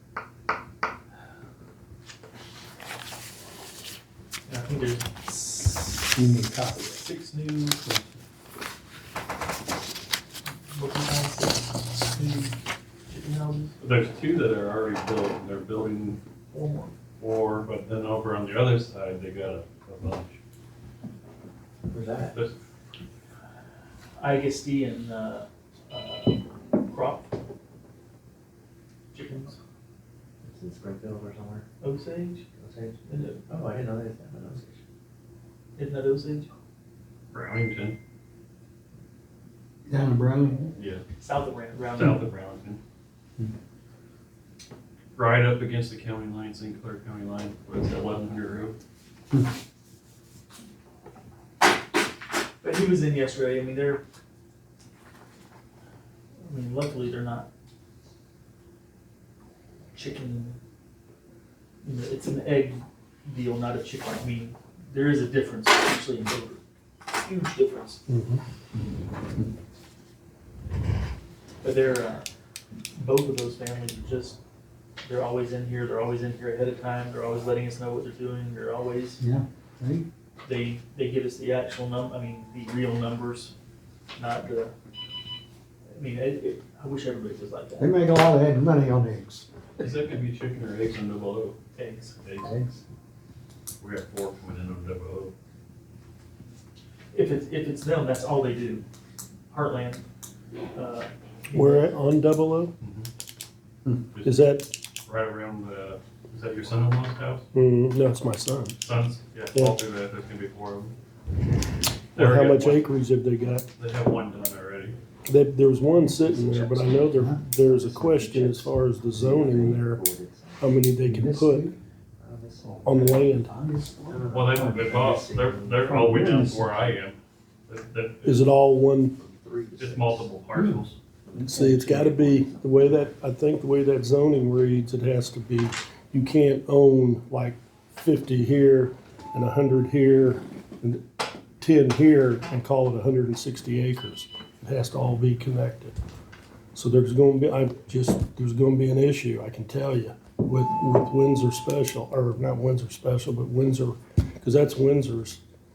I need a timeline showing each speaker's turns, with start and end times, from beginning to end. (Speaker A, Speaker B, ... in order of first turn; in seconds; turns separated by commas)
Speaker A: 4.5-5.2, Speaker B: 6.2-6.8, Speaker A: 6.8-7.8, Speaker A: 10.7-12.6, Speaker A: 13.1-13.8, Speaker C: 13.8-16.2, Speaker A: 16.5-16.9, Speaker C: 17.2-20.4, Speaker D: 21.9-22.4, Speaker C: 22.2-22.6, Speaker A: 24.2-27.3, Speaker A: 29.1-29.6, Speaker D: 30.4-31.6, Speaker A: 31.8-32.4, Speaker D: 32.6-34.8, Speaker A: 33.1-33.5, Speaker A: 35.8-36.5, Speaker C: 37.3-38.0, Speaker E: 39.9-40.7, Speaker C: 40.8-41.0, Speaker A: 41.2-42.2, Speaker C: 41.9-42.8, Speaker C: 45.2-48.8, Speaker A: 52.6-54.0, Speaker A: 56.5-57.5, Speaker A: 59.9-60.5, Speaker A: 61.8-68.0, Speaker B: 68.1-68.4, Speaker A: 71.6-72.2, Speaker A: 73.0-74.4, Speaker A: 75.0-79.2, Speaker E: 79.2-80.1, Speaker A: 80.4-83.5, Speaker A: 84.2-84.7, Speaker A: 85.9-87.9, Speaker E: 87.8-89.5, Speaker C: 89.8-91.6, Speaker A: 91.8-92.2, Speaker C: 92.2-92.7, Speaker E: 92.4-92.7, Speaker C: 93.8-95.3, Speaker A: 97.1-98.8, Speaker A: 99.5-100.0, Speaker A: 100.7-101.9, Speaker B: 101.5-102.7, Speaker C: 102.8-103.1, Speaker B: 104.2-104.7, Speaker C: 105.0-107.4, Speaker B: 107.5-108.8, Speaker C: 108.8-111.0, Speaker C: 112.2-112.9, Speaker B: 112.2-113.7, Speaker C: 113.8-115.0, Speaker B: 115.3-120.1, Speaker E: 116.2-117.4, Speaker D: 117.6-120.6, Speaker B: 120.6-121.7, Speaker E: 121.0-121.8, Speaker D: 122.2-126.0, Speaker B: 122.8-123.5, Speaker E: 123.4-124.4, Speaker C: 124.3-128.5, Speaker E: 125.8-126.7, Speaker B: 128.2-129.1, Speaker D: 129.2-130.3, Speaker C: 129.8-131.0, Speaker D: 131.3-132.6, Speaker B: 131.4-141.0, Speaker B: 141.6-145.9, Speaker B: 146.8-155.4